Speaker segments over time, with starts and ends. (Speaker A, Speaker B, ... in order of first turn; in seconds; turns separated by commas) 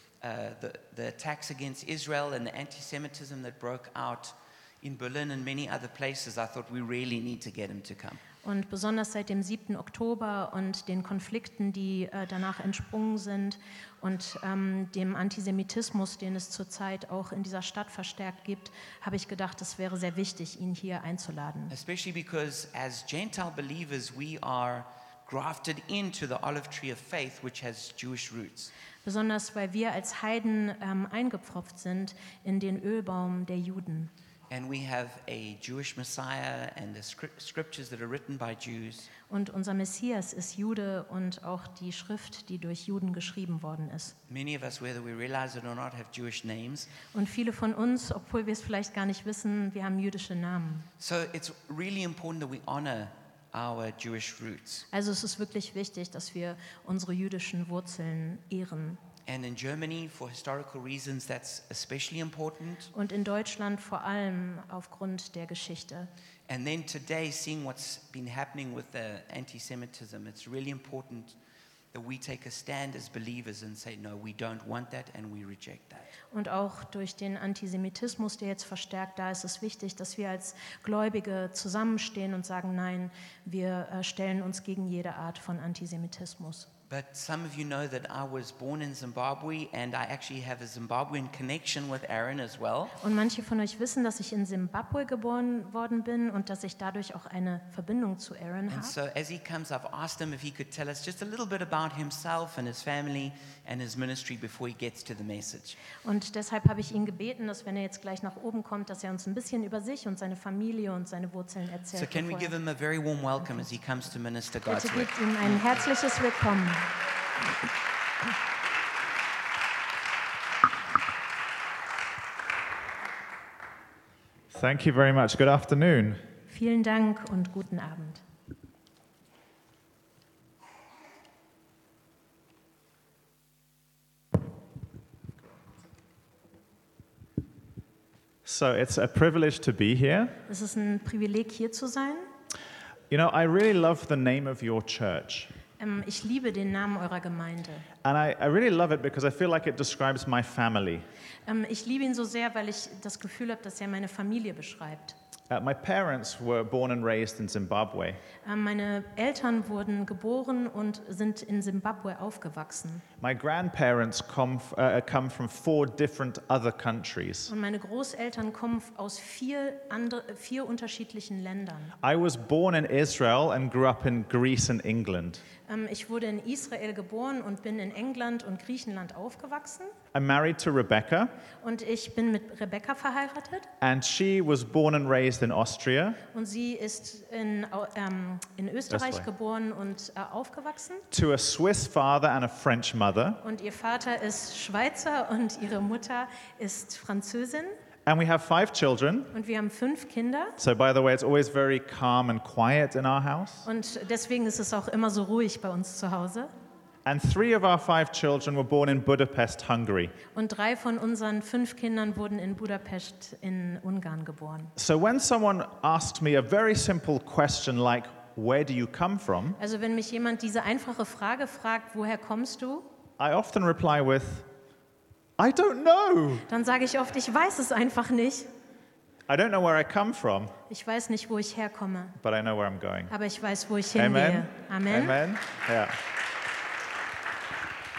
Speaker A: 0.2-8.2, Speaker B: 8.4-21.7, Speaker A: 21.7-28.7, Speaker B: 29.0-34.1, Speaker A: 34.5-39.1, Speaker B: 39.3-44.1, Speaker A: 44.3-46.9, Speaker B: 47.1-50.9, Speaker A: 51.0-54.9, Speaker B: 54.9-59.0, Speaker A: 59.3-62.9, Speaker B: 62.9-66.1, Speaker A: 66.5-71.3, Speaker A: 71.9-76.1, Speaker B: 76.3-86.7, Speaker A: 86.9-93.0, Speaker B: 93.0-99.0, Speaker A: 98.7-105.8, Speaker B: 106.0-112.5, Speaker A: 111.9-115.7, Speaker B: 114.7-116.9, Speaker C: 124.5-126.2, Speaker B: 126.5-128.2, Speaker C: 138.4-140.4, Speaker B: 140.5-142.3, Speaker C: 143.1-145.5, Speaker B: 145.8-147.9, Speaker C: 148.0-151.1, Speaker B: 151.5-155.2, Speaker C: 155.5-158.2, Speaker B: 158.4-163.0, Speaker C: 163.2-167.5, Speaker B: 167.5-171.9, Speaker C: 172.0-175.4, Speaker B: 175.7-180.0, Speaker C: 180.1-181.3, Speaker B: 181.6-183.7, Speaker C: 183.8-186.2, Speaker B: 186.3-191.1, Speaker C: 188.9-189.3, Speaker C: 191.1-193.4, Speaker B: 193.4-197.8, Speaker C: 198.1-199.3, Speaker B: 199.3-200.6, Speaker C: 200.6-203.7, Speaker B: 203.7-206.5, Speaker C: 207.1-210.2, Speaker B: 210.3-214.7, Speaker C: 214.8-219.6, Speaker B: 219.6-222.9, Speaker C: 223.2-224.5, Speaker C: 225.4-226.5, Speaker B: 226.5-228.5, Speaker C: 229.3-230.6, Speaker B: 230.7-232.2, Speaker C: 232.2-233.1, Speaker B: 233.1-235.2, Speaker C: 234.0-236.0